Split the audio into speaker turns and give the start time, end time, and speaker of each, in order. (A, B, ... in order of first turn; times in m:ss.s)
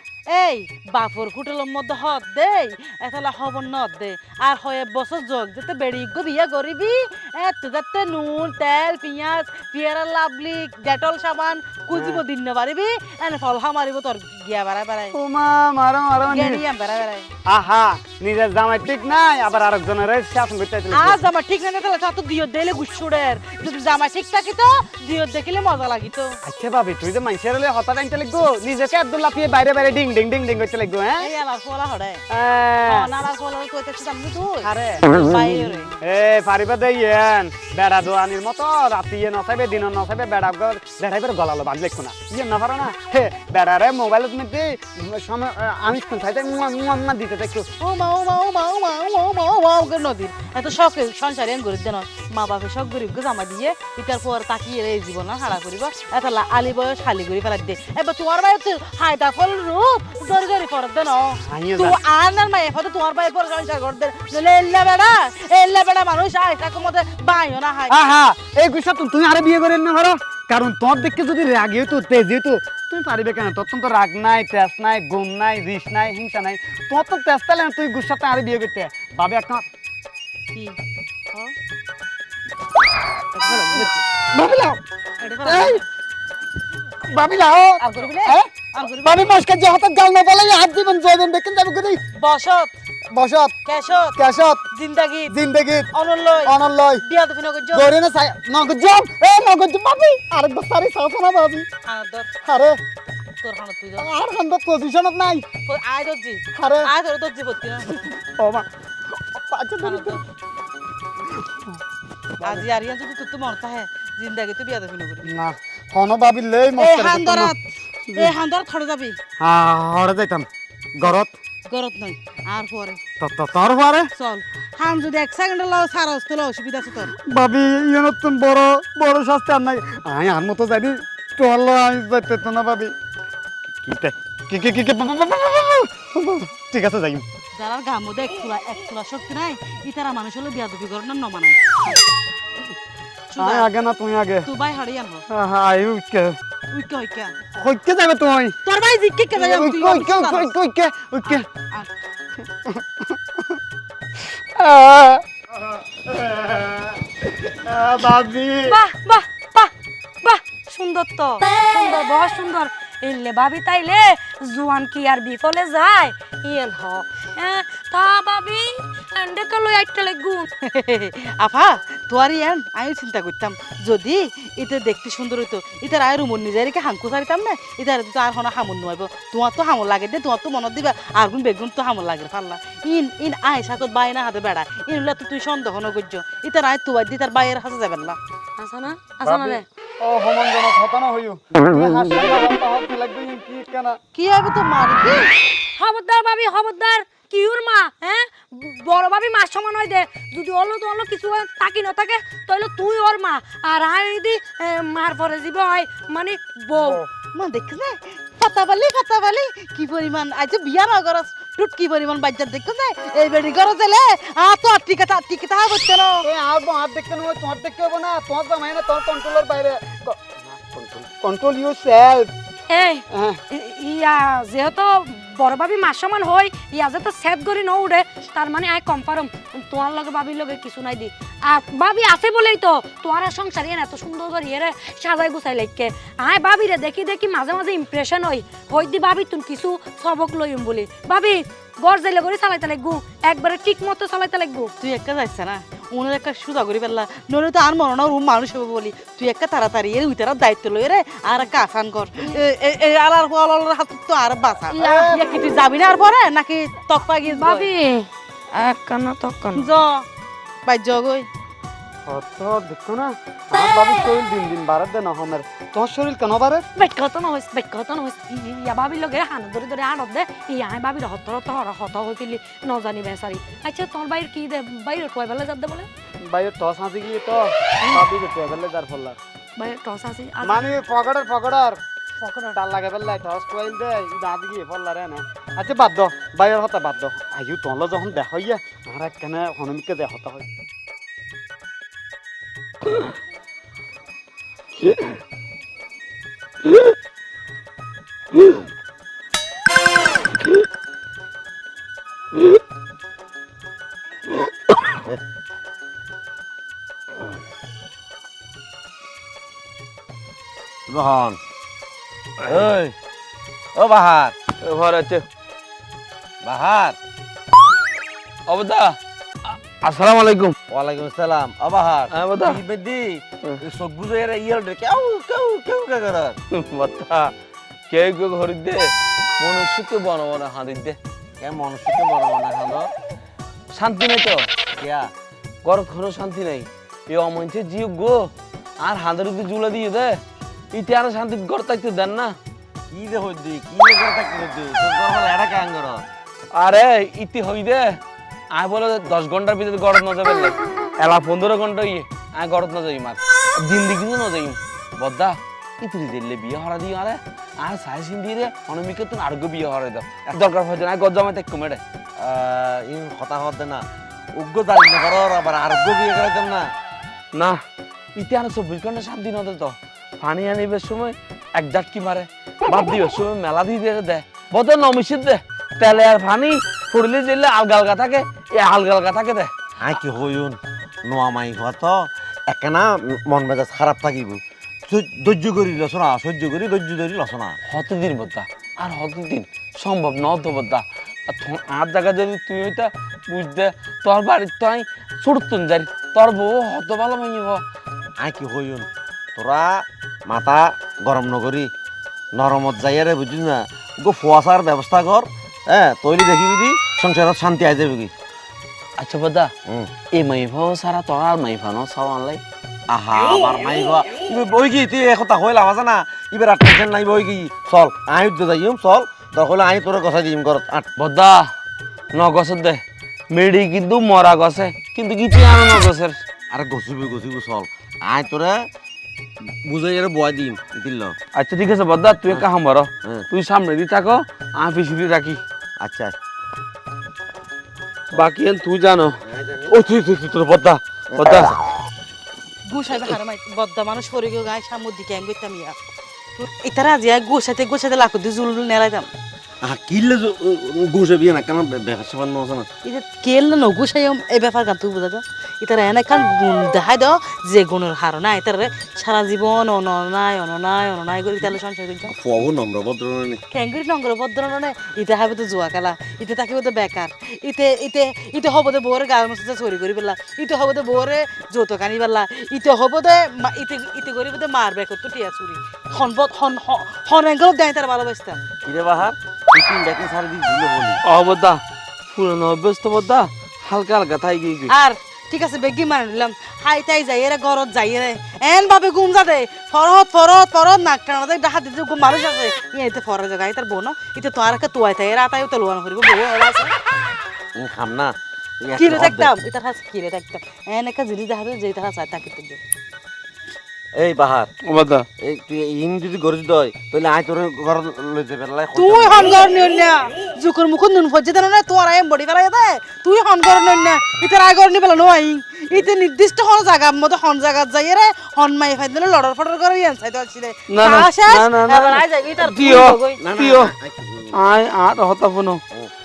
0:00.3-0:15.1 A
0:11.9-0:12.2 B
0:15.1-0:16.6 B
0:16.2-0:17.3 A
0:17.5-0:21.2 B
0:20.9-0:26.4 A
0:26.4-0:31.3 B
0:31.2-0:32.2 A
0:32.3-0:33.1 B
0:32.8-0:35.9 A
0:34.6-0:35.1 B
0:36.0-0:47.7 B
0:47.8-1:07.9 A
1:01.4-1:02.0 B
1:07.9-1:19.6 B
1:20.5-1:20.8 A
1:23.3-1:24.0 A
1:24.3-1:24.8 B
1:25.2-1:25.8 A
1:25.4-1:25.8 B
1:27.0-1:32.0 B
1:27.8-1:29.3 A
1:32.1-1:32.7 A
1:33.1-1:33.5 B
1:33.6-1:34.2 A
1:34.2-1:34.6 B
1:34.7-1:35.4 A
1:35.3-1:35.9 B
1:35.9-1:37.9 A
1:36.4-1:37.0 B
1:37.7-1:41.6 B
1:41.8-1:42.3 A
1:42.4-1:42.8 B
1:43.4-1:44.1 A
1:44.0-1:45.4 B
1:45.6-1:48.0 A
1:46.5-1:46.9 B
1:48.0-1:48.6 B
1:49.2-1:50.2 B
1:49.8-1:50.2 A
1:51.3-1:51.8 B
1:52.4-1:55.3 A
1:55.2-1:57.5 B
1:56.8-1:57.6 A
1:58.1-1:59.2 A
1:59.4-2:01.4 B
2:01.7-2:03.0 A
2:03.2-2:04.1 B
2:04.1-2:07.1 A
2:07.2-2:12.9 B
2:13.8-2:17.2 B
2:17.5-2:22.0 A
2:23.3-2:23.7 A
2:23.4-2:24.5 B
2:24.4-2:25.2 A
2:25.3-2:26.4 B
2:26.7-2:27.3 A
2:27.6-2:28.5 B
2:28.6-2:30.5 A
2:29.3-2:31.4 B
2:31.2-2:31.9 A
2:32.6-2:33.6 B
2:34.5-2:38.8 B
2:38.6-2:39.7 C
2:40.2-2:50.5 C
2:50.6-3:08.2 A
3:08.6-3:09.6 C
3:09.2-3:14.0 B
3:14.1-3:15.3 A
3:15.8-3:27.0 C
3:26.8-3:27.1 B
3:27.3-3:36.2 A
3:36.2-3:42.3 B
3:42.7-4:04.7 C
3:43.1-3:43.4 B
4:04.8-4:17.7 A
4:14.7-4:15.4 C
4:14.8-4:15.2 B
4:17.2-4:19.7 C
4:19.5-4:20.0 A
4:20.6-4:21.3 A
4:22.0-4:26.6 B
4:23.6-4:24.0 C
4:26.7-4:35.9 C
4:36.2-4:39.2 B
4:39.6-4:40.7 C
4:40.4-4:41.8 B
4:42.2-4:42.6 C
4:42.5-4:50.4 B
4:54.8-4:55.2 D
5:10.9-5:11.4 E
5:12.4-5:12.7 D
5:12.4-5:12.9 E
5:13.7-5:14.3 E
5:14.6-5:15.2 D
5:16.4-5:17.0 E
5:18.5-5:20.5 D
5:20.7-5:26.4 E
5:22.1-5:22.6 D
5:26.5-5:27.3 D
5:27.9-5:28.9 D
5:29.4-5:31.0 D
5:31.4-5:32.9 E
5:33.7-5:34.5 D
5:34.7-5:35.1 E
5:35.6-5:40.2 D
5:40.7-5:42.3 D
5:42.9-5:46.0 E
5:46.5-5:47.8 D
5:48.5-6:01.8 D
6:02.2-6:06.7 E
6:08.2-6:19.5 D
6:19.8-6:27.6 E
6:27.7-6:37.6 D
6:38.2-6:41.7 E
6:42.3-6:48.1 E
6:49.0-6:49.5 D
6:50.1-6:52.4 D
6:52.9-7:00.9 E
7:01.0-7:01.4 D
7:02.1-7:06.2 D
7:06.5-7:08.7 E
7:09.6-7:11.2 E
7:11.3-7:15.4 D
7:15.8-7:16.1 E
7:18.1-7:19.2 D
7:19.2-7:19.8 E
7:19.7-7:21.5 D
7:21.1-7:21.5 E
7:22.7-7:25.8 A
7:26.4-7:29.1 A
7:29.6-7:32.7 E
7:32.8-7:42.1 A
7:42.1-7:43.4 E
7:43.5-7:58.4 A
7:58.6-8:01.0 E
8:01.0-8:04.7 D
8:04.7-8:16.7 A
8:17.5-8:19.3 E
8:18.8-8:22.6 A
8:23.9-8:24.5 E
8:24.6-8:25.0 D
8:25.2-8:29.4 E
8:28.7-8:43.2 A
8:40.7-8:43.7 D
8:43.2-8:44.4 E
8:44.3-8:45.6 D